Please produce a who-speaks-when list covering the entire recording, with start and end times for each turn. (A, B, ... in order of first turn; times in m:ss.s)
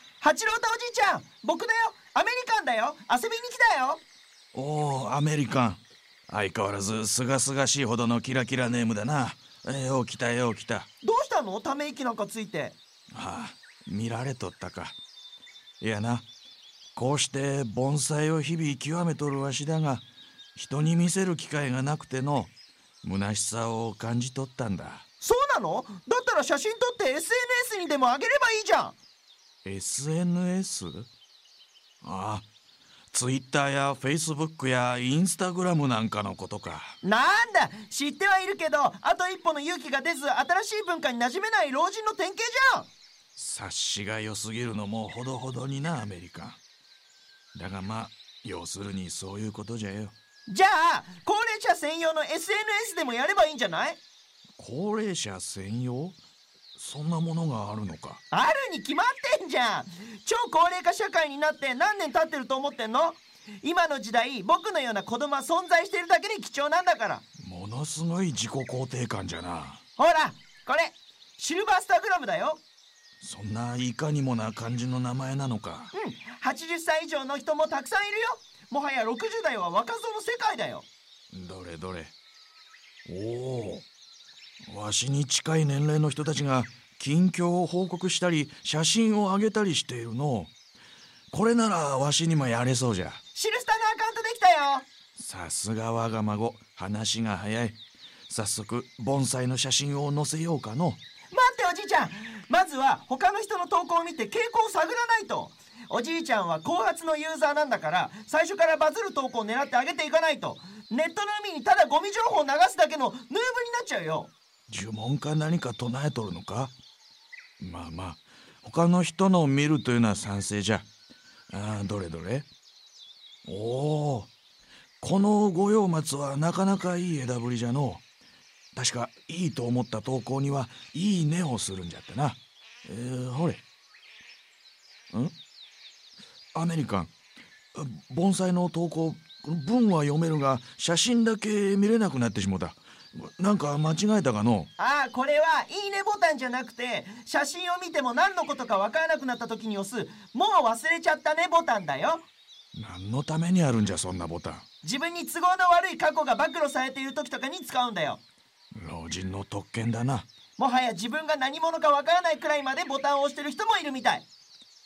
0:00.2-0:04.0 A
0:04.5-0:10.9 B
0:11.0-0:12.8 A
0:13.1-0:15.0 B
0:15.8-0:16.2 B
0:17.0-0:22.5 B
0:23.0-0:25.0 B
0:25.2-0:29.0 A
0:29.6-0:31.1 B
0:32.0-0:32.4 B
0:33.1-0:37.0 B
0:37.0-0:42.9 A
0:43.4-0:46.6 B
0:47.5-0:50.1 B
0:50.5-0:54.0 A
0:54.6-0:56.2 B
0:56.7-0:58.2 B
0:58.3-1:07.2 A
1:07.4-1:09.8 B
1:10.0-1:12.6 A
1:13.2-1:15.9 B
1:15.9-1:20.9 A
1:21.3-1:22.1 B
1:23.0-1:23.8 B
1:24.7-1:30.5 B
1:31.3-1:33.2 B
1:33.3-1:34.9 A
1:35.2-1:41.0 B
1:41.3-1:54.3 A
1:54.7-1:56.7 B
1:57.6-2:00.8 B
2:01.5-2:02.5 B
2:03.4-2:04.3 B
2:05.0-2:08.0 B
2:08.7-2:13.6 B
2:16.5-2:17.1 B
2:17.7-2:24.7 B
2:24.8-2:32.3 A
2:32.7-2:34.6 B
2:34.8-2:38.2 A
2:38.7-2:40.3 B
2:40.6-2:44.2 A